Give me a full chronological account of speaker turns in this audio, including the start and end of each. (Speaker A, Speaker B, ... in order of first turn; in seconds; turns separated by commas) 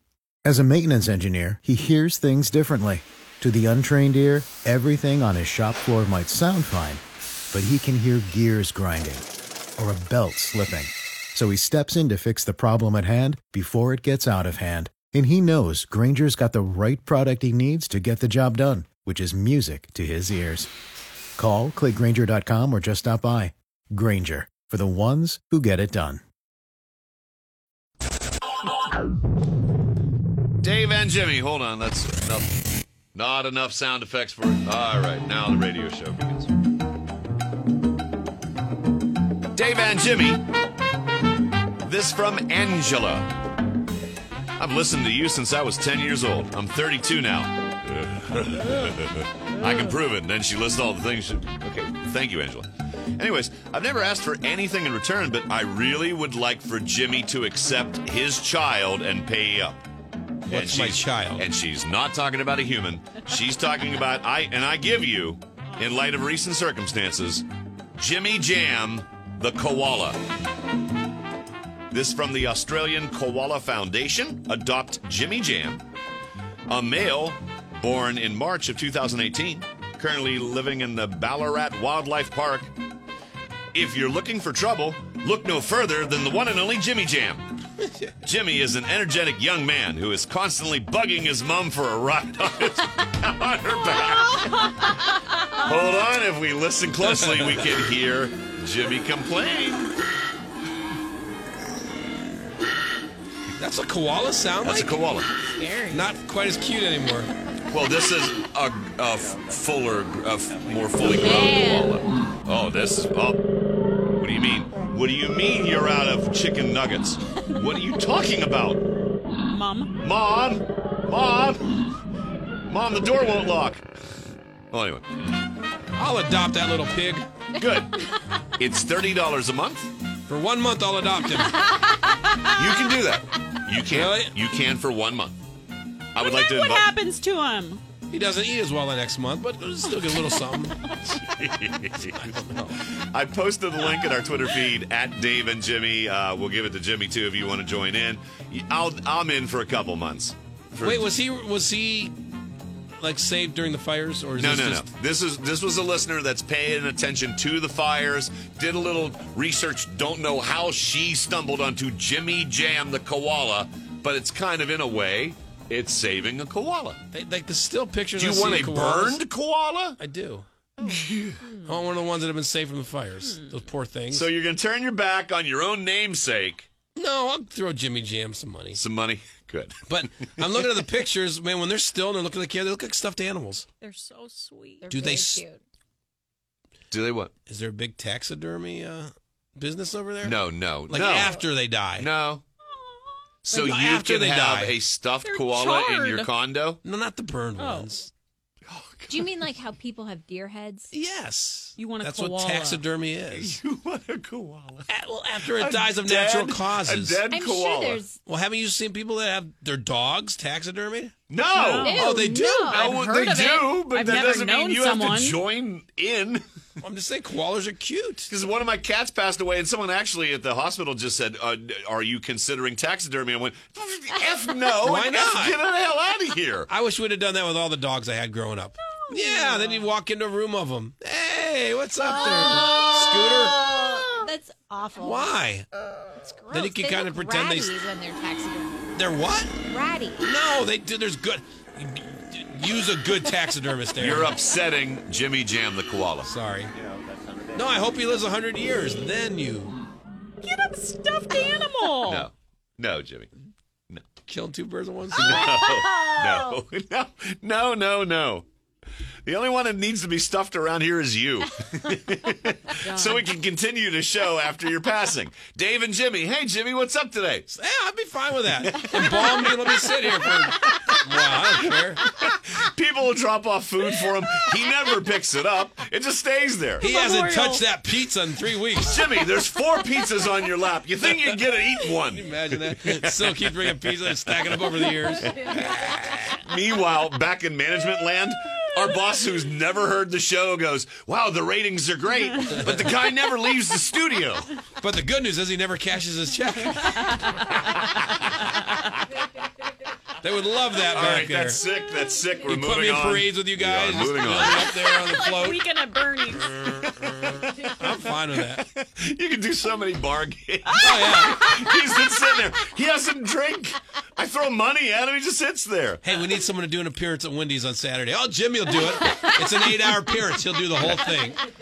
Speaker A: 0.5-9.3, Speaker A: 9.8-20.7, Speaker A: 21.4-26.2, Speaker B: 30.6-32.6, Speaker B: 33.1-36.5, Speaker B: 39.5-40.5, Speaker B: 41.8-43.3, Speaker B: 44.6-59.8, Speaker B: 60.5-67.5, Speaker C: 60.5-61.5, Speaker B: 68.0-70.2, Speaker B: 71.9-75.8, Speaker B: 76.7-82.7, Speaker B: 83.7-87.5, Speaker B: 88.2-94.7, Speaker B: 95.6-99.9, Speaker C: 97.0-97.8, Speaker C: 103.6-105.0, Speaker B: 104.6-105.3, Speaker D: 105.5-106.1, Speaker C: 105.9-107.3, Speaker B: 107.7-113.4, Speaker D: 111.0-112.0, Speaker B: 114.2-118.8, Speaker E: 119.5-120.0, Speaker B: 120.0-121.8, Speaker B: 122.7-123.8, Speaker B: 124.7-125.0, Speaker C: 126.0-127.3, Speaker B: 127.5-129.9, Speaker C: 130.3-131.7, Speaker B: 132.6-135.4, Speaker C: 133.9-134.3, Speaker B: 136.1-136.9, Speaker E: 136.2-137.8, Speaker C: 138.1-140.8, Speaker B: 141.1-142.4, Speaker C: 142.0-142.8, Speaker B: 143.1-151.1, Speaker C: 150.8-152.2, Speaker C: 153.0-154.9, Speaker B: 154.4-167.0, Speaker C: 167.1-169.2, Speaker B: 168.2-170.0, Speaker C: 170.0-170.5, Speaker B: 170.8-171.5, Speaker E: 170.8-171.8, Speaker C: 171.7-174.3, Speaker B: 174.1-176.7, Speaker C: 176.9-178.8, Speaker B: 178.7-180.5, Speaker C: 179.9-183.7, Speaker E: 183.8-184.9, Speaker D: 184.8-185.6, Speaker C: 184.9-185.5, Speaker B: 186.9-187.3, Speaker C: 187.5-192.1, Speaker B: 190.2-191.4, Speaker B: 192.0-192.4, Speaker B: 193.4-196.8, Speaker C: 193.5-194.8, Speaker E: 195.2-196.3, Speaker C: 196.8-198.1, Speaker E: 197.6-197.9, Speaker B: 198.7-199.4, Speaker D: 199.1-200.9, Speaker C: 200.9-203.6, Speaker E: 201.8-202.8, Speaker B: 203.3-204.9, Speaker C: 204.9-207.2, Speaker B: 205.5-208.0, Speaker D: 207.3-208.2, Speaker C: 208.2-211.2, Speaker B: 211.3-216.4, Speaker E: 211.5-212.1, Speaker D: 211.7-213.2, Speaker C: 211.9-212.9, Speaker E: 212.8-215.4, Speaker C: 216.8-218.3, Speaker B: 218.3-226.7, Speaker C: 224.8-225.6, Speaker C: 226.7-233.6, Speaker D: 232.0-235.3, Speaker E: 233.7-234.3, Speaker C: 235.0-235.7, Speaker D: 236.2-238.8, Speaker C: 236.5-237.8, Speaker C: 238.9-239.6, Speaker D: 239.7-240.3, Speaker C: 240.2-244.3, Speaker B: 244.0-246.3, Speaker C: 246.2-246.8, Speaker C: 247.5-249.8, Speaker E: 250.4-252.3, Speaker B: 252.0-253.3, Speaker C: 254.3-255.5, Speaker B: 255.1-258.5, Speaker E: 255.7-256.5, Speaker B: 259.2-267.5, Speaker E: 262.8-263.2, Speaker C: 267.5-272.0, Speaker B: 268.9-276.9, Speaker C: 276.8-279.1, Speaker E: 276.8-277.6, Speaker B: 278.8-283.4, Speaker C: 281.9-286.2, Speaker B: 285.2-294.5, Speaker C: 294.8-297.2, Speaker E: 297.1-298.0, Speaker C: 300.2-301.6, Speaker B: 300.9-304.8, Speaker C: 302.4-305.6, Speaker E: 304.2-306.6, Speaker B: 306.5-307.7, Speaker C: 307.7-308.6, Speaker B: 308.5-316.1, Speaker C: 310.8-311.4, Speaker C: 316.0-321.4